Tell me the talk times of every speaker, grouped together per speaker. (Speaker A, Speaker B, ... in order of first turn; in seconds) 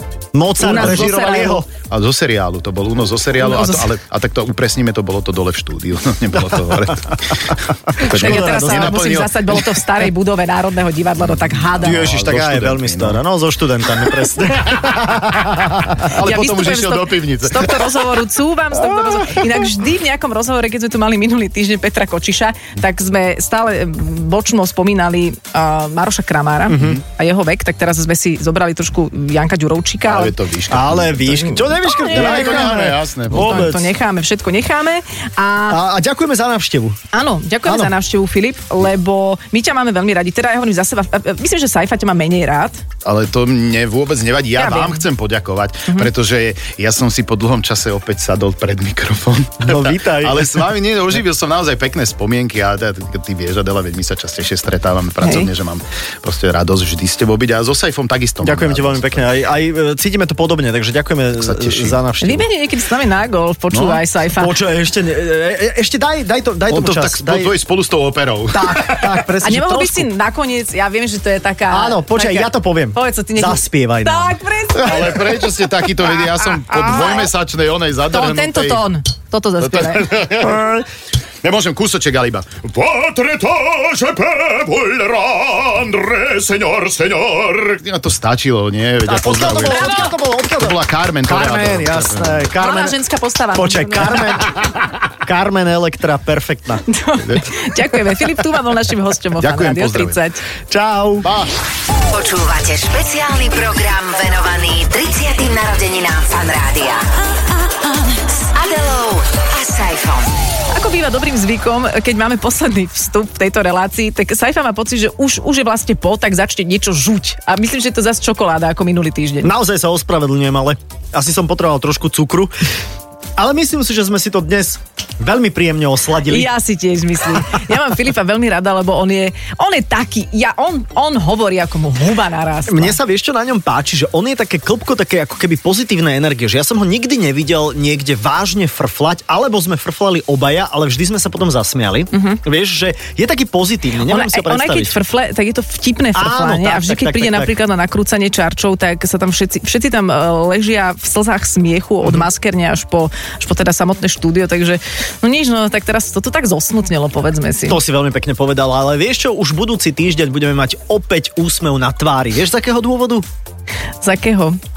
Speaker A: 0.3-1.6, 8.0-9.0, 11.8-16.0, 26.7-27.0, 30.7-33.9, 35.7-37.0, 37.6-37.9, 49.6-50.7, 58.4-62.5, 64.3-67.5, 68.5-70.1, 71.7-74.4, 80.4-80.8, 89.0-93.0, 93.5-96.8, 100.7-101.3, 119.4-122.5, 123.4-126.5, 132.7-144.9, 146.1-147.5, 157.7-163.2
Speaker B: 0.6-1.6, 3.4-3.9, 8.0-12.1, 16.2-30.3, 31.7-35.8, 37.1-42.8, 44.5-45.0, 55.2-55.5, 62.2-64.5, 69.4-75.2, 76.3-77.3, 78.1-80.1, 92.6-94.5, 96.9-100.4, 110.7-119.5, 126.2-133.0, 142.1-142.4, 144.0-157.8, 164.0-164.6
Speaker C: 0.6-1.2, 1.8-9.7, 11.2-13.2, 14.6-18.0, 30.0-33.8, 43.0-59.3, 61.3-62.0, 63.7-64.0, 66.7-69.2, 74.7-78.8, 79.6-80.8, 81.4-92.5, 97.2-97.5, 99.4-100.2, 101.2-101.5
Speaker D: 102.1-107.1, 108.3-110.3